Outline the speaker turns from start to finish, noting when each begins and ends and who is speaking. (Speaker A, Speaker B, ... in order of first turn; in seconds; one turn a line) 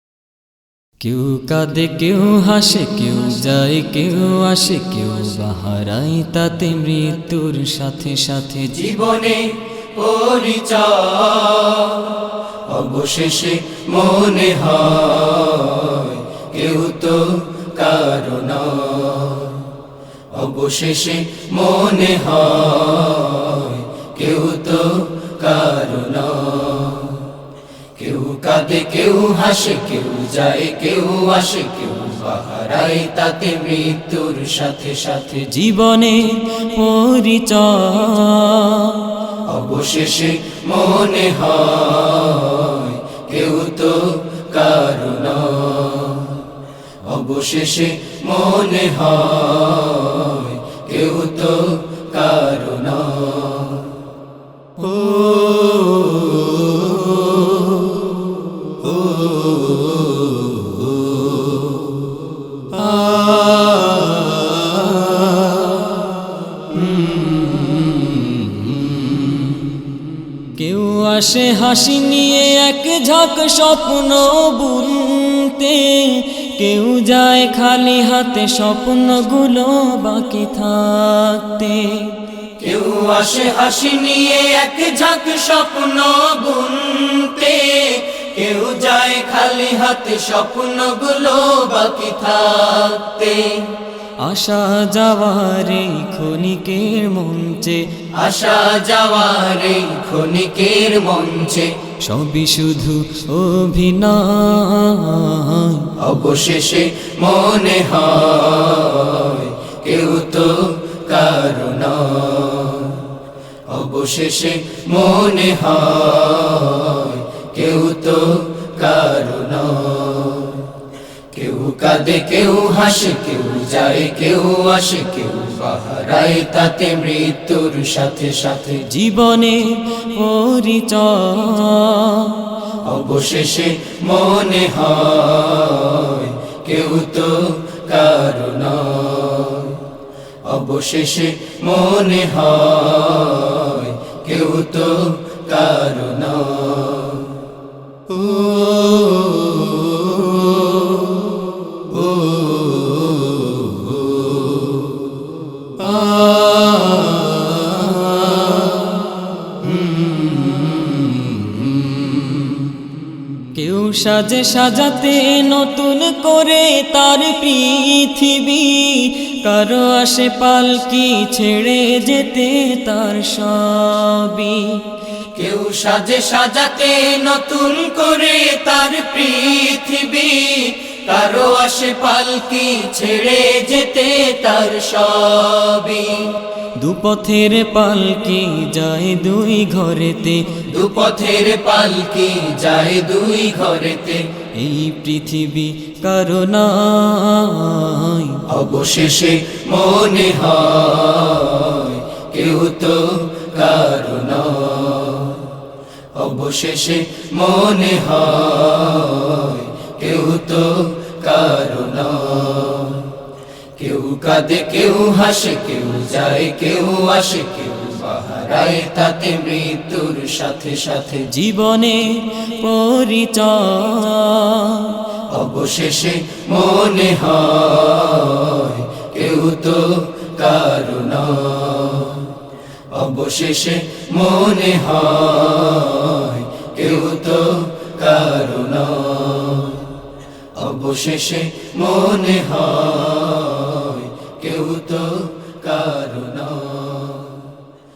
Speaker A: 1.0-8.7
Speaker B: 8.7-19.7
Speaker B: 20.3-27.3
Speaker B: 27.9-35.5
Speaker A: 35.5-39.1
Speaker B: 39.5-46.5
Speaker B: 47.0-54.0
Speaker B: 55.6-57.0
Speaker B: 59.3-59.8
Speaker A: 67.1-68.5
Speaker A: 70.5-82.2
Speaker B: 82.6-93.7
Speaker A: 94.2-97.8
Speaker B: 98.2-101.7
Speaker A: 102.0-105.9
Speaker B: 106.0-113.1
Speaker B: 113.7-120.7
Speaker B: 121.3-128.8
Speaker A: 128.9-132.5
Speaker B: 132.8-139.8
Speaker B: 140.4-147.4
Speaker B: 149.0-149.5
Speaker A: 163.5-174.8
Speaker B: 175.3-186.3
Speaker A: 186.8-190.6
Speaker B: 190.7-194.2
Speaker A: 194.6-198.4
Speaker B: 198.5-205.5
Speaker B: 206.1-213.1
Speaker B: 213.8-221.3
Speaker A: 221.3-225.0
Speaker B: 225.3-232.3
Speaker B: 232.9-239.9
Speaker B: 240.5-247.5